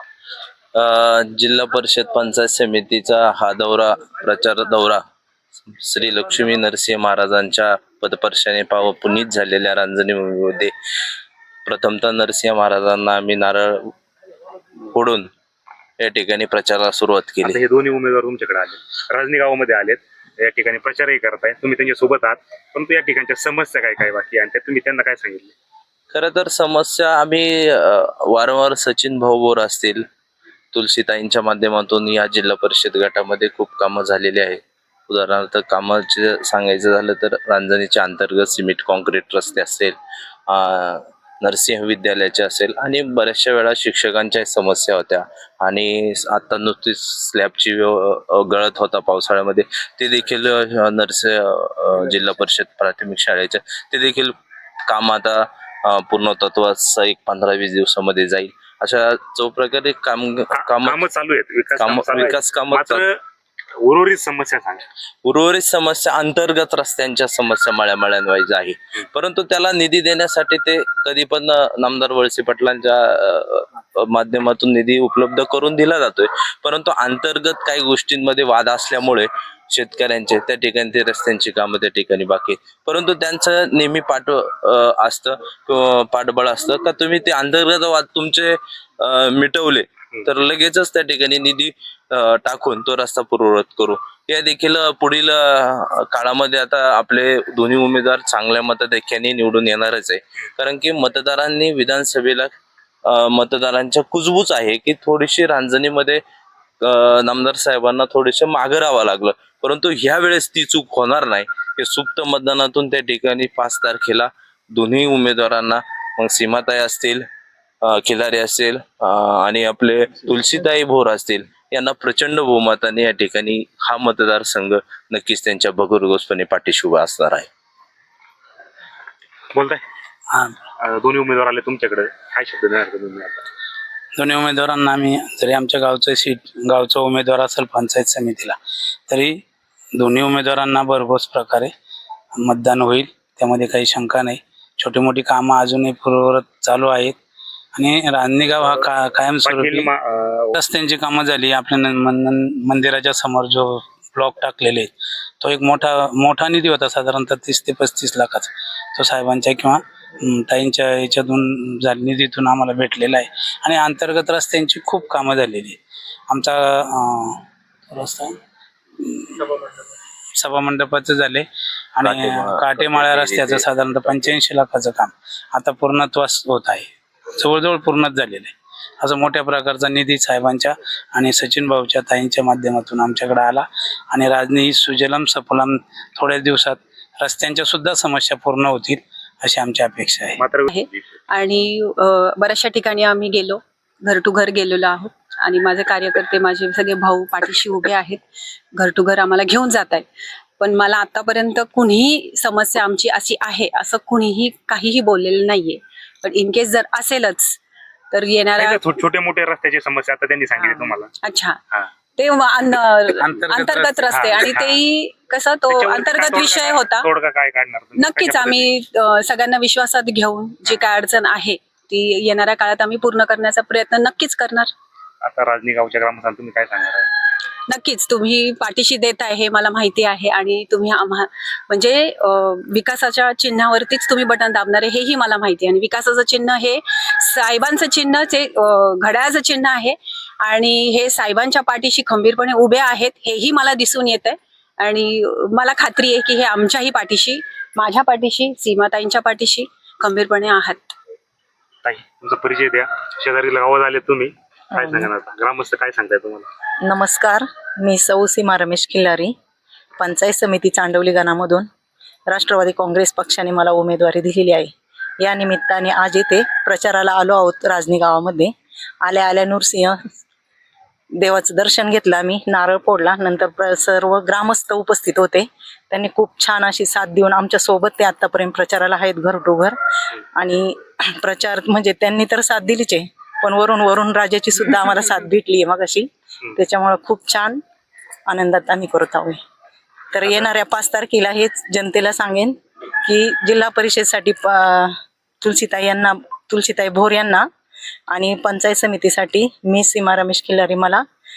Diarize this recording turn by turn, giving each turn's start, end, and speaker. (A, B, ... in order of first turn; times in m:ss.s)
0:00.7-0:05.0 A
0:05.7-0:10.7 A
0:11.6-0:13.9 A
0:14.8-0:15.3 A
0:16.0-0:17.6 A
0:17.4-0:25.5 B
0:26.1-0:30.0 A
0:30.7-0:40.0 A
0:40.5-0:54.3 A
0:54.8-1:01.0 A
1:00.5-1:03.2 B
1:01.8-1:03.0 A
1:03.8-1:04.8 B
1:05.2-1:42.5 A
1:43.0-1:46.2 A
1:46.8-1:57.2 A
1:57.8-2:07.5 A
2:09.5-2:09.8 B
2:10.3-2:10.6 C
2:10.8-2:13.4 B
2:14.2-2:18.6 C
2:19.1-2:19.4 C
2:20.0-2:21.7 C
2:22.3-2:27.2 C
2:27.7-2:29.9 C
2:29.4-2:30.5 B
2:30.5-2:48.4 C
2:49.0-2:49.7 C
2:50.4-3:10.4 C
2:52.0-2:54.3 A
3:10.4-3:10.7 B
3:10.7-3:18.2 D
3:18.7-3:20.1 D
3:20.6-3:27.6 D
3:28.1-3:28.9 D
3:28.6-3:31.1 B
3:30.6-3:31.6 D
3:32.2-3:37.1 D
3:33.1-3:34.5 C
3:34.1-3:34.8 B
3:35.7-3:38.7 B
3:38.0-3:44.7 D
3:45.2-3:47.1 B
3:47.7-4:10.9 D
4:11.8-4:16.5 B
4:14.7-4:15.1 E
4:16.8-4:19.3 E
4:20.0-4:21.7 E
4:22.3-4:28.5 E
4:29.0-4:30.2 E
4:31.2-4:39.7 E
4:40.3-4:47.6 E
4:48.3-4:49.4 E
4:50.1-4:57.5 E
4:58.1-5:01.0 E